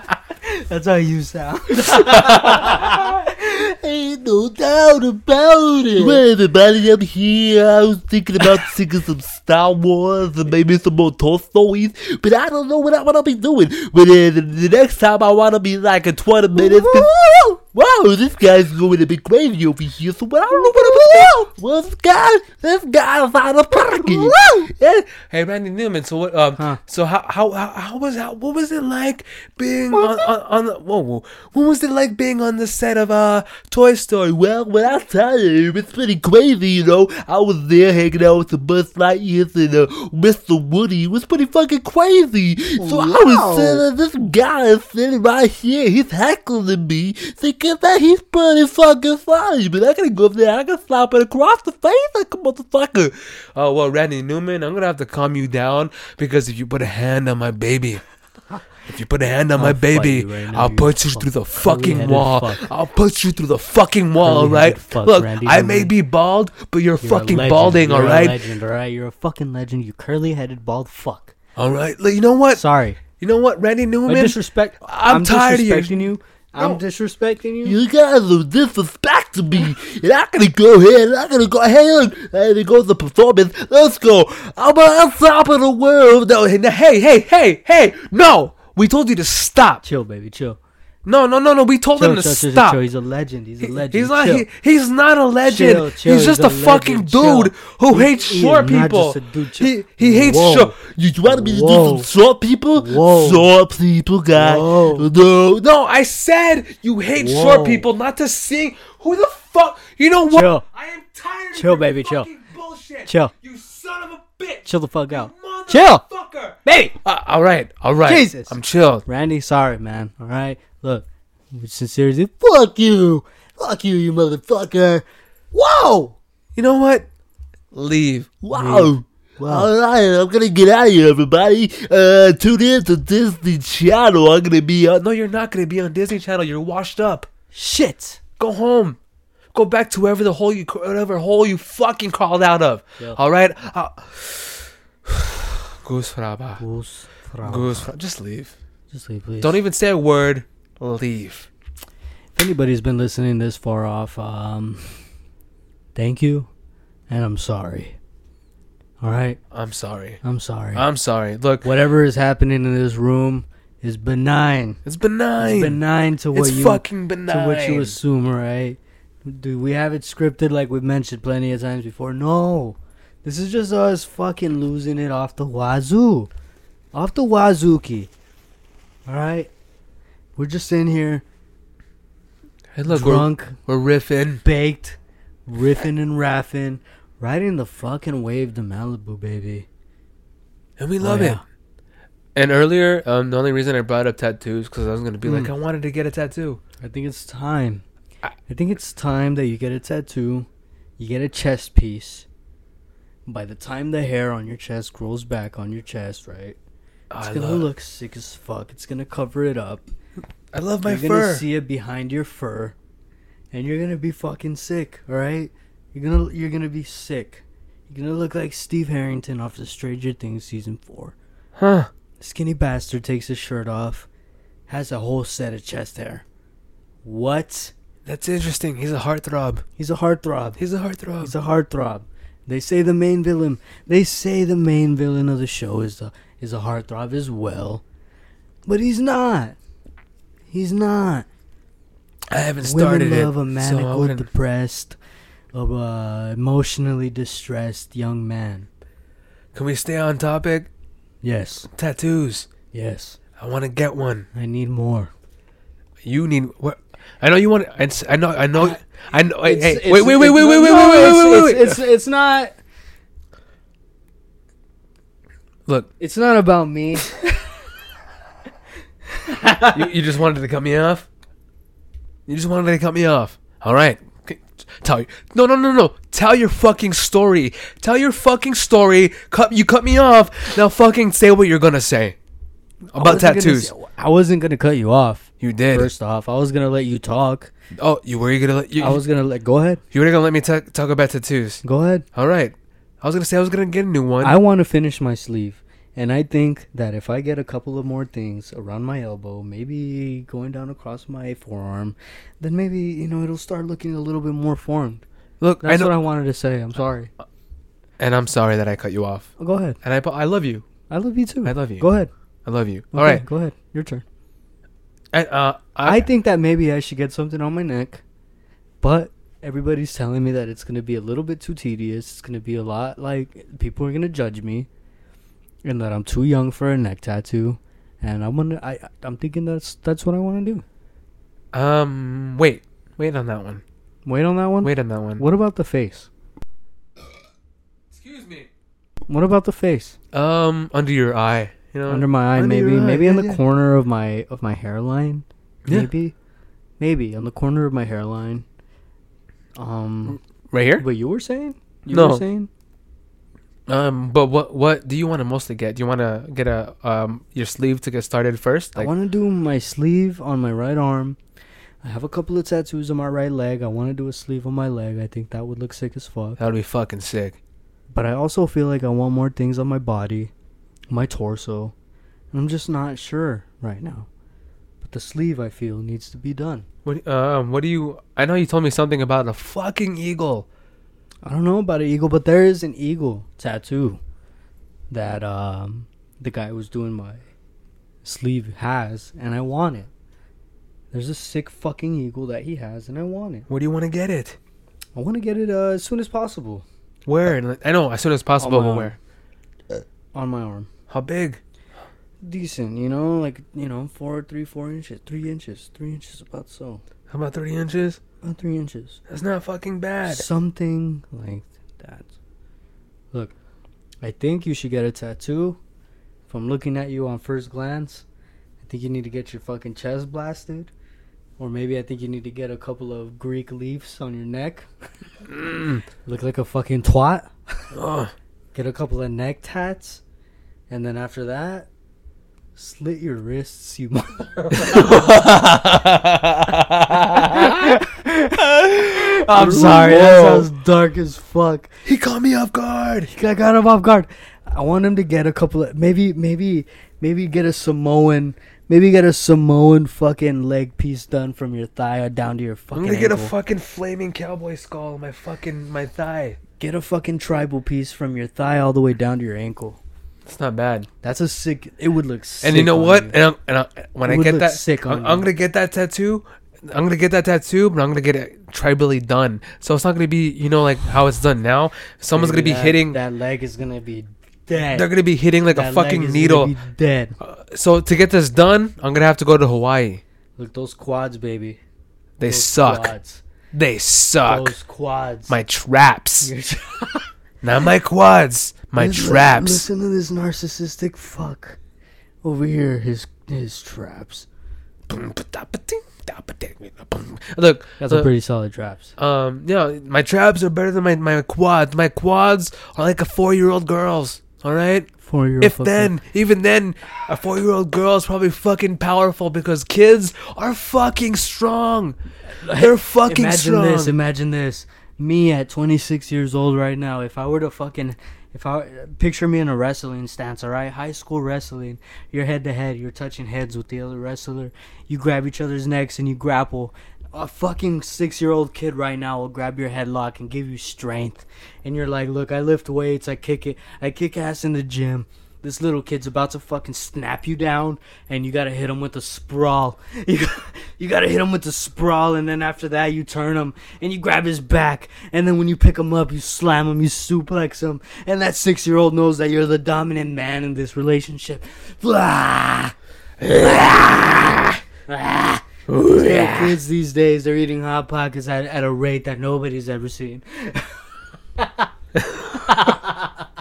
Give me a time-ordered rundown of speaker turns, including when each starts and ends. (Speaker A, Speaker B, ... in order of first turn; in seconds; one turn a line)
Speaker A: 0.4-6.2
Speaker B: 1.9-2.9
Speaker C: 6.0-25.1
Speaker A: 16.6-17.1
Speaker A: 20.5-21.3
Speaker A: 23.9-24.7
Speaker B: 25.2-34.3
Speaker A: 29.9-30.2
Speaker C: 34.3-53.1
Speaker A: 42.8-43.8
Speaker B: 53.1-58.0
Speaker B: 58.9-68.4
Speaker A: 59.5-62.7
Speaker A: 64.2-65.9
Speaker A: 67.0-71.3
Speaker B: 71.5-76.8
Speaker A: 72.5-73.0
Speaker A: 74.1-77.8
Speaker C: 77.6-86.4
Speaker B: 86.3-89.8
Speaker A: 89.8-90.6
Speaker B: 91.0-92.8
Speaker A: 92.0-94.5
Speaker B: 93.6-100.8
Speaker A: 95.4-102.1
Speaker C: 100.8-105.6
Speaker A: 102.7-103.5
Speaker A: 104.3-105.1
Speaker B: 105.6-119.0
Speaker A: 107.2-107.9
Speaker A: 110.3-110.6
Speaker A: 111.5-112.3
Speaker A: 113.1-113.3
Speaker A: 114.7-116.0
Speaker A: 116.6-117.0
Speaker A: 118.0-126.1
Speaker B: 126.5-127.1
Speaker B: 127.7-128.3
Speaker C: 128.4-135.0
Speaker A: 128.5-129.7
Speaker B: 135.0-137.3
Speaker A: 137.5-138.2
Speaker B: 138.4-139.0
Speaker B: 139.5-146.6
Speaker A: 146.6-147.8
Speaker B: 147.4-148.5
Speaker A: 148.9-149.6
Speaker B: 149.4-151.5
Speaker A: 152.3-155.0
Speaker A: 155.9-156.5
Speaker A: 157.1-158.0
Speaker A: 159.0-159.4
Speaker B: 159.5-160.2
Speaker A: 160.2-160.8
Speaker B: 160.7-161.7
Speaker A: 161.6-164.8
Speaker B: 164.8-165.8
Speaker A: 165.4-176.3
Speaker B: 166.3-168.0
Speaker A: 176.9-178.1
Speaker A: 179.1-179.5
Speaker A: 180.3-181.2
Speaker B: 182.7-184.4
Speaker A: 182.9-183.6
Speaker A: 184.4-189.7
Speaker B: 190.8-191.4
Speaker A: 191.0-191.4
Speaker B: 192.3-196.6
Speaker A: 195.2-195.5
Speaker A: 196.8-197.8
Speaker A: 198.5-202.2
Speaker A: 203.3-206.6
Speaker B: 207.1-207.7
Speaker A: 207.2-209.8
Speaker B: 210.5-211.4
Speaker A: 210.8-212.7
Speaker A: 213.5-221.1
Speaker B: 221.6-221.9
Speaker A: 222.2-224.1
Speaker A: 224.7-226.2
Speaker A: 227.0-227.7
Speaker B: 228.1-229.6
Speaker A: 229.8-230.6
Speaker B: 230.6-231.3
Speaker A: 231.2-237.8
Speaker A: 238.7-239.6
Speaker A: 240.5-241.2
Speaker B: 242.3-244.3
Speaker A: 242.6-244.9
Speaker A: 245.5-248.7
Speaker B: 249.5-250.7
Speaker A: 251.2-251.7
Speaker B: 251.7-252.5
Speaker A: 252.7-253.2
Speaker B: 253.4-254.3
Speaker A: 254.3-255.1
Speaker B: 256.0-261.8
Speaker A: 259.4-262.6
Speaker A: 266.0-267.5
Speaker A: 269.2-269.9
Speaker B: 269.7-271.1
Speaker B: 272.3-282.1
Speaker B: 282.9-283.7
Speaker A: 282.9-287.5
Speaker B: 285.4-285.9
Speaker B: 287.8-289.0
Speaker A: 288.8-289.8
Speaker B: 289.9-291.6
Speaker A: 291.6-292.0
Speaker B: 292.1-294.4
Speaker A: 294.2-305.0
Speaker B: 305.4-305.9
Speaker A: 305.6-307.1
Speaker B: 308.0-310.6
Speaker A: 309.4-309.8
Speaker A: 310.9-312.1
Speaker B: 311.4-311.9
Speaker B: 312.4-313.2
Speaker A: 312.9-314.0
Speaker B: 315.1-316.1
Speaker A: 315.8-318.0
Speaker A: 318.8-324.7
Speaker A: 325.6-330.6
Speaker B: 331.5-333.6
Speaker A: 334.1-336.1
Speaker B: 334.6-335.2
Speaker B: 337.9-338.5
Speaker A: 339.1-340.0
Speaker B: 340.1-343.4
Speaker A: 341.9-346.1
Speaker A: 346.8-348.4
Speaker A: 349.6-350.2
Speaker B: 350.5-350.8
Speaker A: 350.8-352.5
Speaker B: 351.9-352.2
Speaker B: 353.7-358.9
Speaker A: 358.7-361.2
Speaker A: 361.8-366.4
Speaker B: 366.4-367.4
Speaker A: 367.9-370.3
Speaker A: 370.9-371.7
Speaker A: 372.3-374.1
Speaker A: 374.8-376.6
Speaker B: 376.8-380.4
Speaker A: 381.2-384.0
Speaker A: 384.9-387.2
Speaker A: 388.0-389.9
Speaker A: 390.9-393.5
Speaker B: 393.5-394.4
Speaker A: 394.9-396.6
Speaker B: 397.1-398.9
Speaker A: 398.4-399.0
Speaker A: 400.1-400.7
Speaker B: 400.9-401.4
Speaker A: 402.2-406.8
Speaker B: 407.1-408.0
Speaker A: 408.2-409.0
Speaker B: 409.1-410.2
Speaker A: 410.1-412.1
Speaker A: 414.0-415.6
Speaker A: 416.3-418.0
Speaker A: 418.6-420.7
Speaker A: 421.4-424.7
Speaker B: 425.3-425.8
Speaker A: 426.0-427.3
Speaker B: 427.7-428.1
Speaker A: 428.5-430.0
Speaker A: 430.7-431.7
Speaker A: 432.6-435.0
Speaker B: 434.5-437.8
Speaker A: 437.2-441.7
Speaker B: 438.4-440.5
Speaker B: 441.8-443.1
Speaker A: 443.1-453.3
Speaker B: 452.7-456.4
Speaker A: 456.6-459.8
Speaker B: 460.2-460.9
Speaker A: 461.0-463.1
Speaker B: 462.4-473.0
Speaker A: 464.0-465.3
Speaker A: 472.1-474.9
Speaker B: 474.7-476.5
Speaker A: 475.5-477.1
Speaker B: 477.2-480.0
Speaker A: 480.4-481.6
Speaker B: 482.2-482.9
Speaker A: 482.2-483.2
Speaker B: 483.5-484.5
Speaker A: 484.2-485.4
Speaker B: 485.3-486.3
Speaker A: 486.2-487.1
Speaker B: 487.4-489.6
Speaker A: 488.8-491.6
Speaker A: 492.2-494.3
Speaker B: 494.9-498.1
Speaker A: 497.8-498.9
Speaker B: 499.0-504.9
Speaker A: 505.0-505.9
Speaker B: 505.4-512.0
Speaker A: 512.4-552.7
Speaker B: 512.5-513.9
Speaker B: 553.2-554.5
Speaker A: 553.3-554.3
Speaker A: 554.9-555.4
Speaker B: 555.7-556.5
Speaker A: 555.9-560.7
Speaker A: 561.4-561.7
Speaker B: 562.0-562.5
Speaker A: 562.4-563.1